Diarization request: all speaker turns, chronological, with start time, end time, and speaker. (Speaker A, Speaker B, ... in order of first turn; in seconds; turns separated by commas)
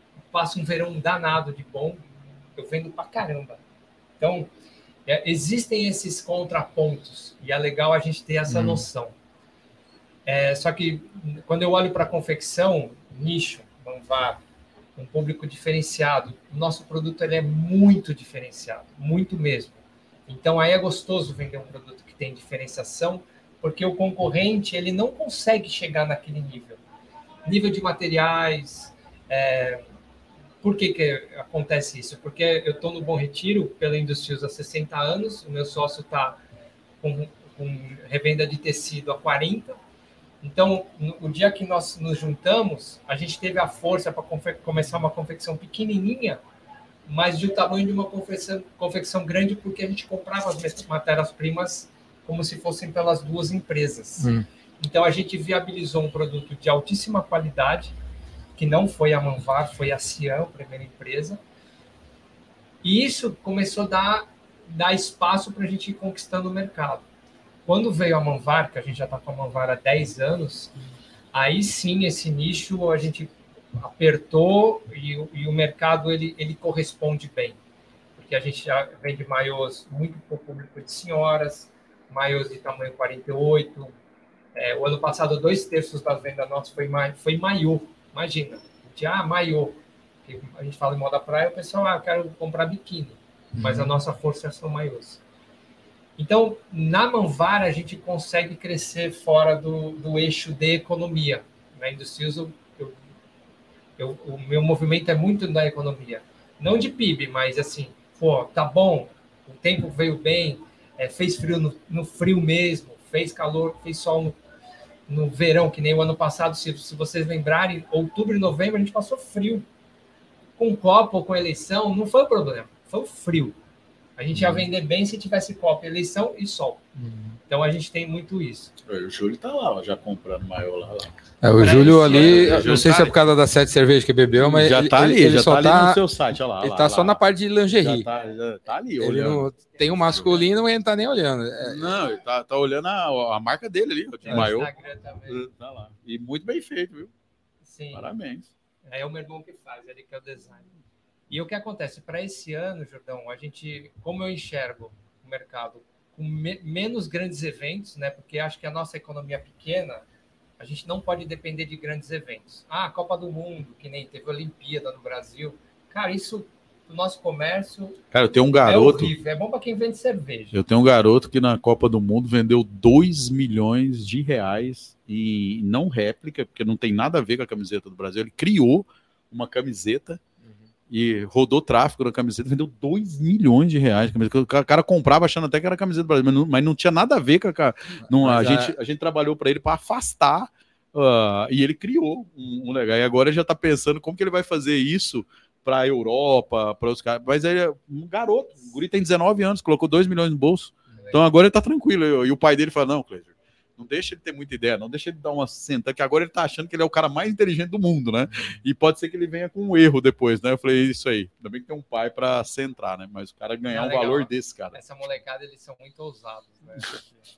Speaker A: 0.3-2.0, Speaker A: 2.5-3.6, Speaker A: 4.2-4.5, Speaker A: 5.0-9.1, Speaker B: 8.5-8.8, Speaker A: 10.2-14.4, Speaker A: 15.0-26.8, Speaker A: 27.4-29.8, Speaker A: 30.6-36.4, Speaker A: 37.0-39.8, Speaker A: 40.4-46.4, Speaker A: 47.0-57.9, Speaker B: 54.2-54.5, Speaker A: 58.5-61.4, Speaker A: 62.8-67.0, Speaker A: 67.7-70.7, Speaker A: 71.3-77.6, Speaker A: 78.2-83.9, Speaker A: 84.5-95.2, Speaker B: 93.6-93.9, Speaker A: 96.2-103.0, Speaker A: 104.0-114.3, Speaker A: 115.1-119.6, Speaker A: 120.6-123.5, Speaker A: 124.2-126.8, Speaker B: 124.3-124.6, Speaker B: 127.0-127.4, Speaker A: 127.5-128.7, Speaker C: 128.8-133.2, Speaker B: 131.4-136.0, Speaker A: 131.6-132.7, Speaker C: 134.3-139.5, Speaker B: 136.6-138.1, Speaker B: 139.0-141.8, Speaker A: 140.0-140.3, Speaker C: 141.6-144.7, Speaker A: 144.2-145.4, Speaker C: 145.3-147.1, Speaker A: 147.6-148.1, Speaker C: 147.9-148.5, Speaker A: 148.8-150.7, Speaker A: 151.3-160.0, Speaker A: 160.6-168.0, Speaker C: 168.1-169.1, Speaker A: 168.6-170.6, Speaker C: 170.5-180.2, Speaker C: 180.9-214.8, Speaker B: 188.1-188.7, Speaker A: 213.7-217.1